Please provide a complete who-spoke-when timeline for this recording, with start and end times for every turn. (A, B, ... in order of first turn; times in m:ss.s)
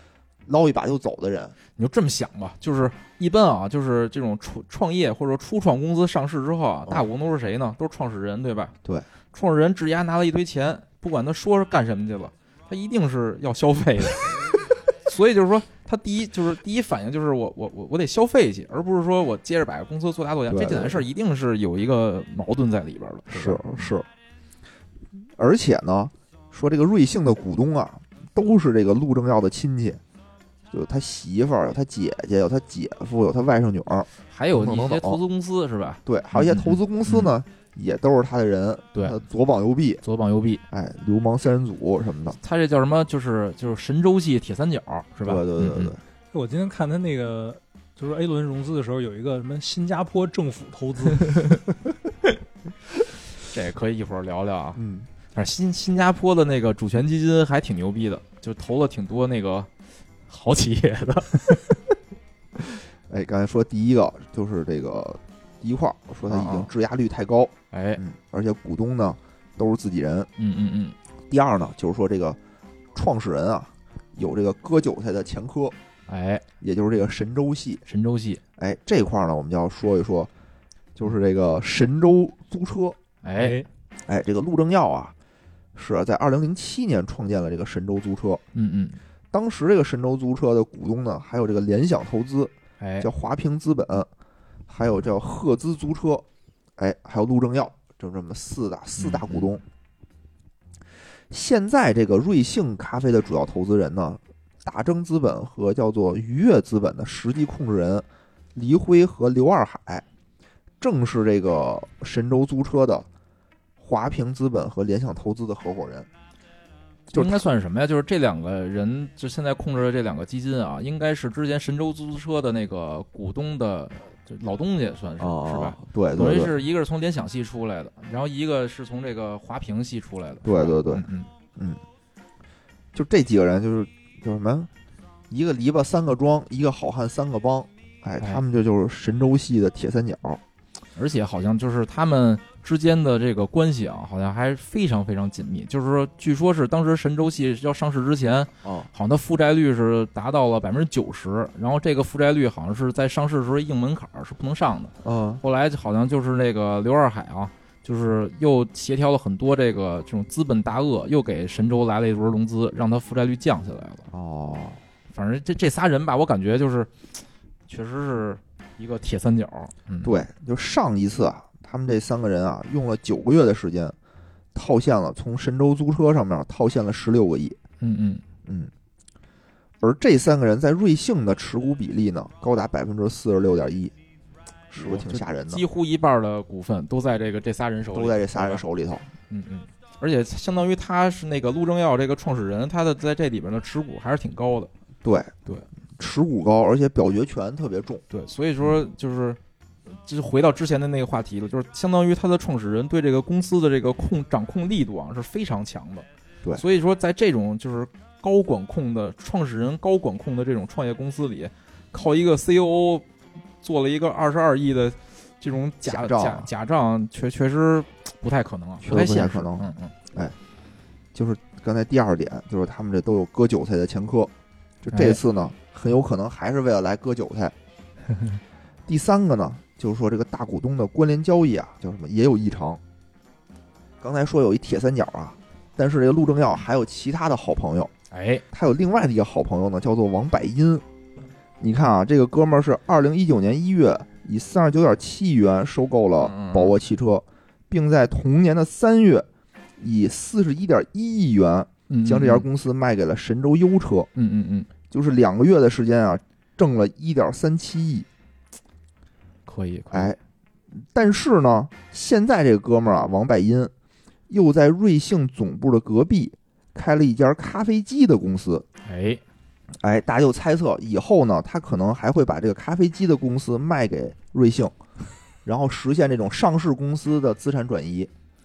0:00.4-0:01.6 A
0:01.8-0:08.7 B
0:09.3-0:24.0 B
0:20.5-0:21.0 A
0:23.3-0:24.0 A
0:25.4-0:30.0 A
0:30.7-0:35.2 A
0:34.3-0:37.3 B
0:36.0-0:40.0 A
0:38.9-0:39.2 B
0:40.0-0:40.6 B
0:40.7-0:42.4 A
0:42.4-0:45.9 B
0:45.2-0:46.0 A
0:46.3-0:51.6 C
0:53.4-0:54.8 B
0:54.8-0:55.1 A
0:55.3-0:59.7 B
1:00.3-1:01.8 B
1:03.1-1:10.3 A
1:06.3-1:06.7 B
1:07.7-1:08.0 B
1:10.4-1:11.0 B
1:11.3-1:12.4 A
1:12.9-1:15.8 A
1:16.1-1:16.4 B
1:16.6-1:17.8 A
1:17.8-1:18.4 B
1:18.6-1:20.3 A
1:20.9-1:23.0 A
1:23.2-1:23.6 B
1:23.4-1:23.6 C
1:24.0-1:25.1 A
1:25.7-1:28.4 A
1:28.5-1:29.0 B
1:29.3-1:34.1 A
1:32.8-1:33.1 B
1:34.7-1:36.2 A
1:36.8-1:39.6 A
1:39.0-1:39.5 B
1:41.3-1:50.0 A
1:50.8-1:53.1 A
1:53.8-1:56.1 A
1:57.1-1:57.4 A
1:57.1-2:11.3 B
2:05.2-2:06.5 A
2:10.4-2:11.0 A
2:12.9-2:14.7 A
2:15.3-2:20.4 A
2:21.0-2:44.0 B
2:28.6-2:28.9 A
2:35.0-2:35.4 A
2:44.1-2:44.8 A
2:45.1-2:46.9 B
2:47.7-2:50.1 B
2:50.0-2:53.9 A
2:54.5-2:57.6 A
2:57.8-2:58.2 B
2:58.4-2:58.7 A
2:59.8-3:03.9 A
3:04.7-3:05.6 A
3:04.8-3:08.6 B
3:07.9-3:09.0 A
3:09.3-3:14.7 B
3:15.0-3:15.3 A
3:16.0-3:18.0 A
3:18.1-3:19.4 B
3:19.9-3:33.0 B
3:33.6-3:39.9 B
3:35.8-3:36.5 A
3:38.8-3:40.4 A
3:41.1-3:44.3 A
3:44.8-3:47.5 A
3:44.9-3:45.2 B
3:48.9-3:52.8 A
3:54.0-3:57.9 A
3:58.1-3:58.4 B
3:58.5-4:00.8 A
4:01.6-4:09.2 A
4:06.2-4:06.8 B
4:09.8-4:14.1 A
4:11.9-4:12.5 B
4:14.2-4:14.7 B
4:14.9-4:18.1 A
4:19.4-4:20.1 B
4:19.9-4:20.2 A
4:20.8-4:23.7 A
4:24.3-4:28.6 A
4:28.8-4:29.2 B
4:29.8-4:34.7 A
4:35.4-4:38.1 A